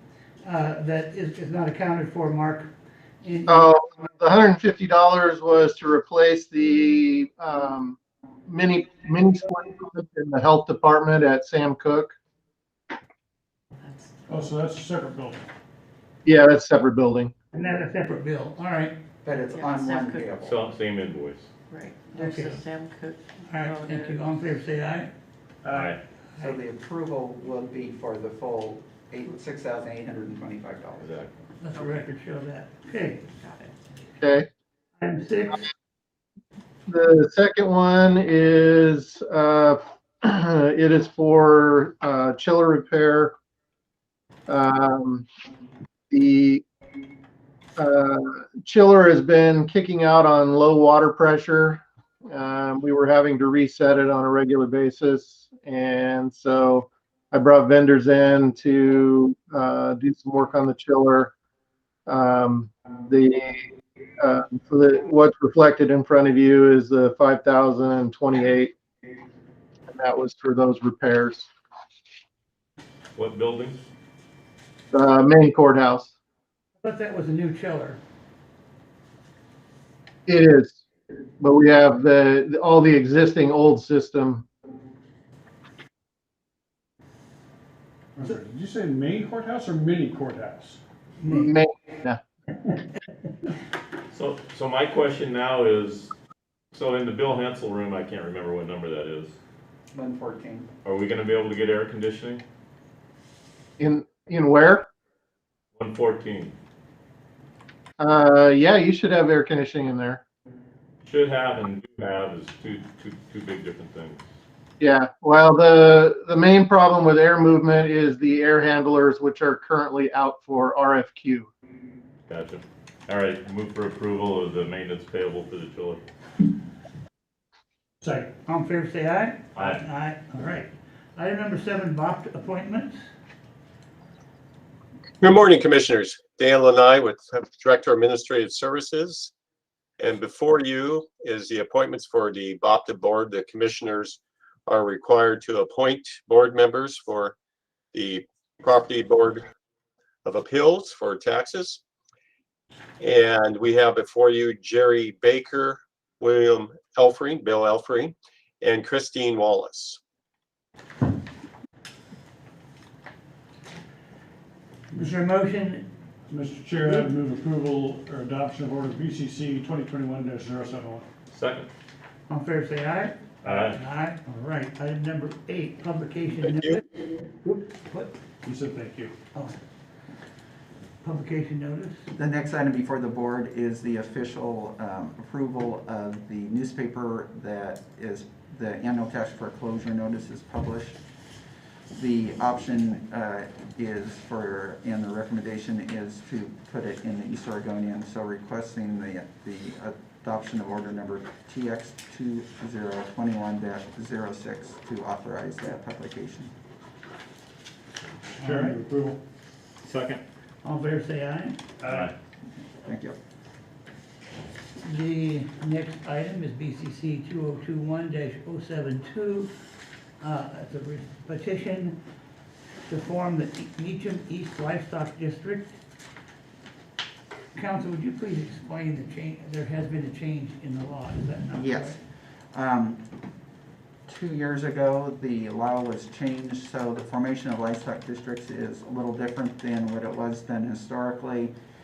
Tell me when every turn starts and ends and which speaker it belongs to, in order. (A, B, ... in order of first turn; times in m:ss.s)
0:00.4-0:02.7 A
0:03.2-0:03.7 A
0:03.4-0:12.1 B
0:13.8-0:14.5 C
0:14.3-0:15.4 D
0:16.2-0:17.3 B
0:17.5-0:18.9 A
0:19.2-0:20.6 E
0:19.5-0:20.3 C
0:20.4-0:21.5 F
0:21.7-0:24.2 C
0:22.1-0:22.6 A
0:23.5-0:25.1 A
0:25.6-0:25.9 D
0:25.7-0:26.0 F
0:26.4-0:31.2 E
0:31.0-0:31.3 F
0:31.6-0:33.2 A
0:33.4-0:33.8 C
0:34.2-0:34.5 B
0:35.0-0:35.6 A
0:36.9-0:43.3 B
0:44.5-0:45.3 B
0:46.1-0:46.6 B
0:47.8-1:01.3 B
1:02.1-1:03.6 B
1:04.2-1:08.7 B
1:09.9-1:11.5 B
1:13.2-1:13.8 F
1:14.9-1:16.1 B
1:16.8-1:18.0 A
1:20.2-1:20.8 B
1:21.4-1:24.5 B
1:28.2-1:30.8 D
1:31.2-1:31.5 A
1:31.2-1:32.2 B
1:34.1-1:36.1 F
1:36.7-1:39.4 F
1:39.9-1:40.7 E
1:40.8-1:42.4 F
1:43.8-1:44.9 B
1:45.7-1:46.6 F
1:48.0-1:50.2 B
1:51.0-1:54.2 F
1:54.8-2:01.5 B
2:02.3-2:06.0 F
2:08.0-2:13.0 A
2:09.5-2:09.8 F
2:15.2-2:19.3 G
2:20.0-2:27.3 G
2:27.9-2:29.4 G
2:30.2-2:31.8 G
2:33.0-2:40.0 G
2:44.9-2:45.8 A
2:46.3-2:51.0 D
2:51.3-2:51.7 F
2:52.3-2:56.8 A
2:53.4-2:53.8 F
2:56.4-2:56.8 G
2:57.4-2:58.1 A
2:58.4-2:59.2 D
3:01.0-3:02.0 A
3:02.1-3:11.0 E
3:11.9-3:26.5 E
3:28.4-3:29.2 D
3:28.4-3:28.8 A
3:29.8-3:30.2 F
3:30.6-3:31.6 A
3:31.8-3:32.1 D
3:31.8-3:32.1 F
3:32.8-3:33.2 E
3:34.8-3:39.5 A
3:40.2-3:42.0 A
3:42.9-3:45.7 A
3:47.5-3:52.0 A
3:51.5-3:52.0 E
3:52.5-3:53.0 E
3:54.1-4:01.5 E